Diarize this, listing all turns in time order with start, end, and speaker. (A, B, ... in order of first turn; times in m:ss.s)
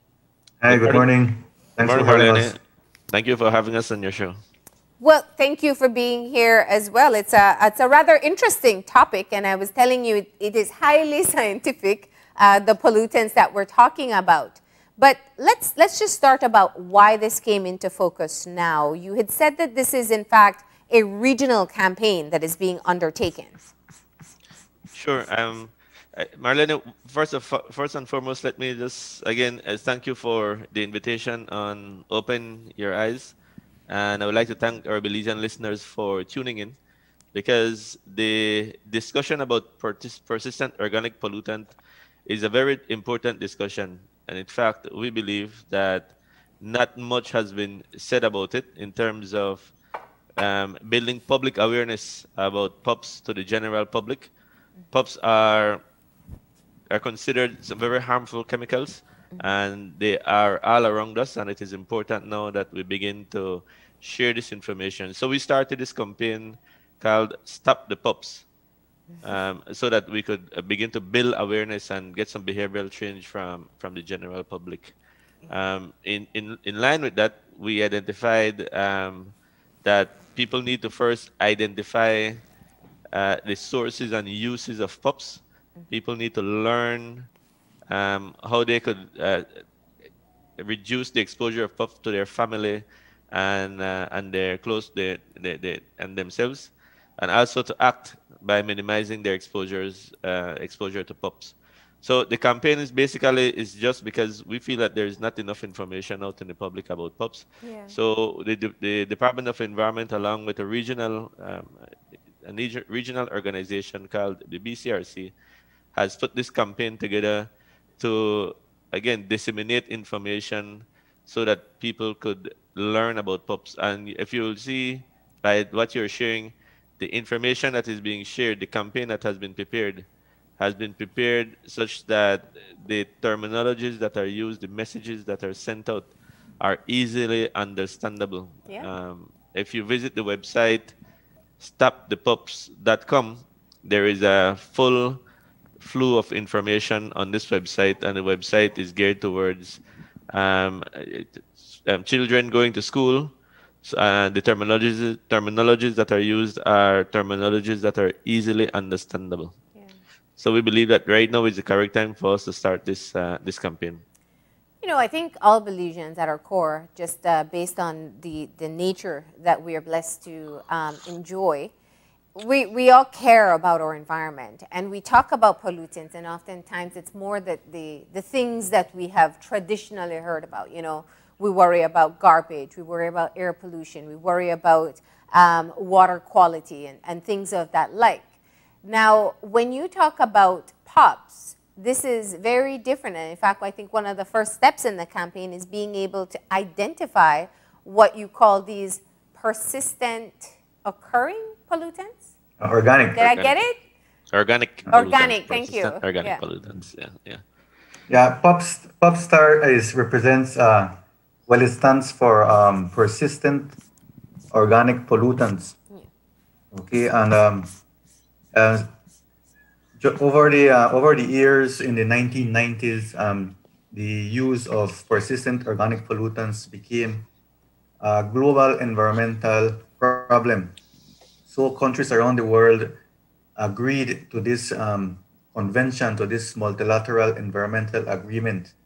0:00.6-0:02.5 A
0:00.7-0:01.1 B
0:01.8-0:02.6 B
0:03.1-0:04.4 B
0:05.0-0:23.7 C
0:24.9-0:33.3 B
0:33.9-0:36.8 B
0:37.3-0:41.7 B
0:42.2-0:49.7 B
0:50.4-0:54.3 B
0:54.9-0:55.8 B
0:56.9-1:08.4 B
1:09.2-1:14.9 B
1:15.5-1:19.3 B
1:19.8-1:22.4 B
1:23.1-1:27.3 B
1:27.9-1:29.6 B
1:30.6-1:51.9 B
1:47.6-1:48.0 C
1:52.4-1:55.3 B
1:55.9-2:10.0 B
2:10.6-2:16.1 B
2:16.6-2:20.9 B
2:21.6-2:25.2 B
2:25.8-2:29.8 B
2:30.3-2:33.3 B
2:33.8-2:39.5 B
2:40.4-2:44.0 B
2:44.8-2:51.7 C
2:52.4-3:08.3 C
3:08.8-3:22.3 C
3:22.6-3:23.2 A
3:23.2-3:23.8 C
3:23.2-3:23.5 B
3:24.3-3:27.4 B
3:24.9-3:26.4 C
3:28.1-3:33.8 A
3:34.5-3:35.8 A
3:36.7-3:37.7 A
3:38.5-3:38.9 A
3:40.0-3:47.3 A
3:48.0-3:50.8 A
3:51.5-3:53.0 A
3:53.6-3:58.7 A